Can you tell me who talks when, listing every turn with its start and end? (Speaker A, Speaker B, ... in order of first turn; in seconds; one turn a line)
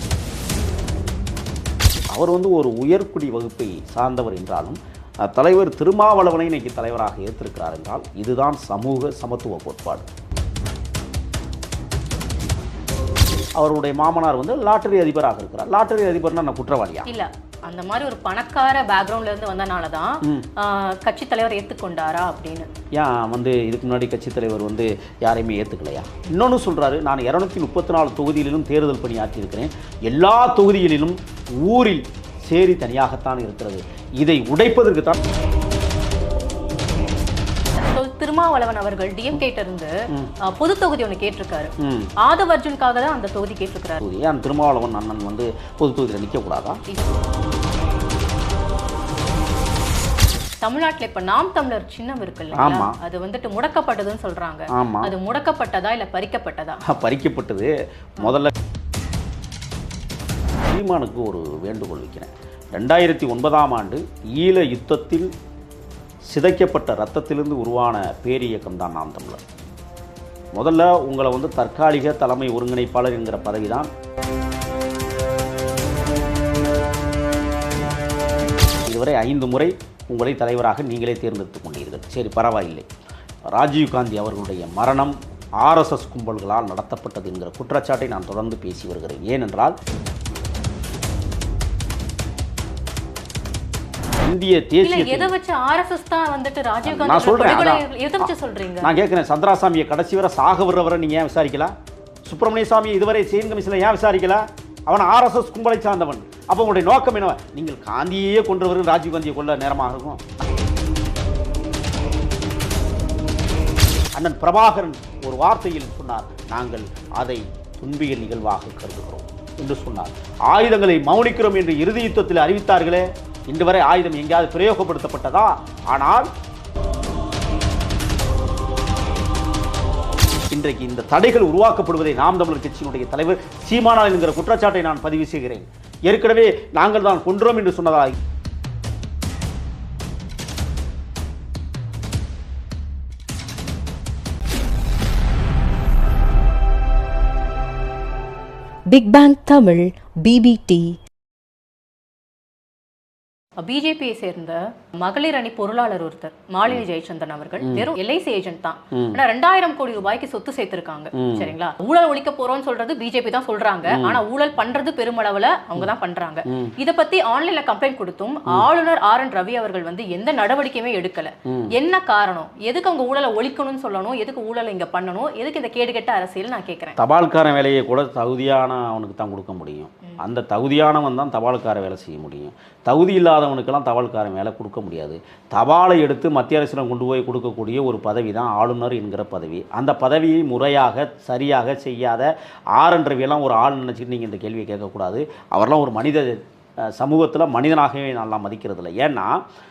Speaker A: 2.1-10.1
Speaker A: 13.6-17.1
Speaker B: 17.1-22.7
Speaker A: 23.0-35.2
Speaker B: 37.8-39.9
Speaker B: 40.4-44.0
Speaker A: 41.8-42.1
Speaker A: 44.0-46.8
Speaker B: 50.6-56.8
Speaker A: 52.5-53.0
Speaker A: 54.7-55.1
Speaker A: 56.9-58.5
Speaker A: 60.6-65.3
Speaker A: 66.3-69.4
Speaker A: 70.5-73.9
Speaker A: 78.9-82.9
Speaker A: 83.5-89.8
Speaker A: 94.2-95.3
Speaker B: 94.8-98.9
Speaker A: 96.8-101.7
Speaker A: 102.2-110.2
Speaker A: 114.2-126.3
Speaker A: 130.5-138.2
Speaker C: 148.9-151.0
Speaker B: 153.6-177.0
Speaker A: 157.6-157.9
Speaker A: 158.9-159.2
Speaker A: 161.2-161.5
Speaker A: 163.9-164.2
Speaker A: 171.4-171.7
Speaker A: 177.0-199.4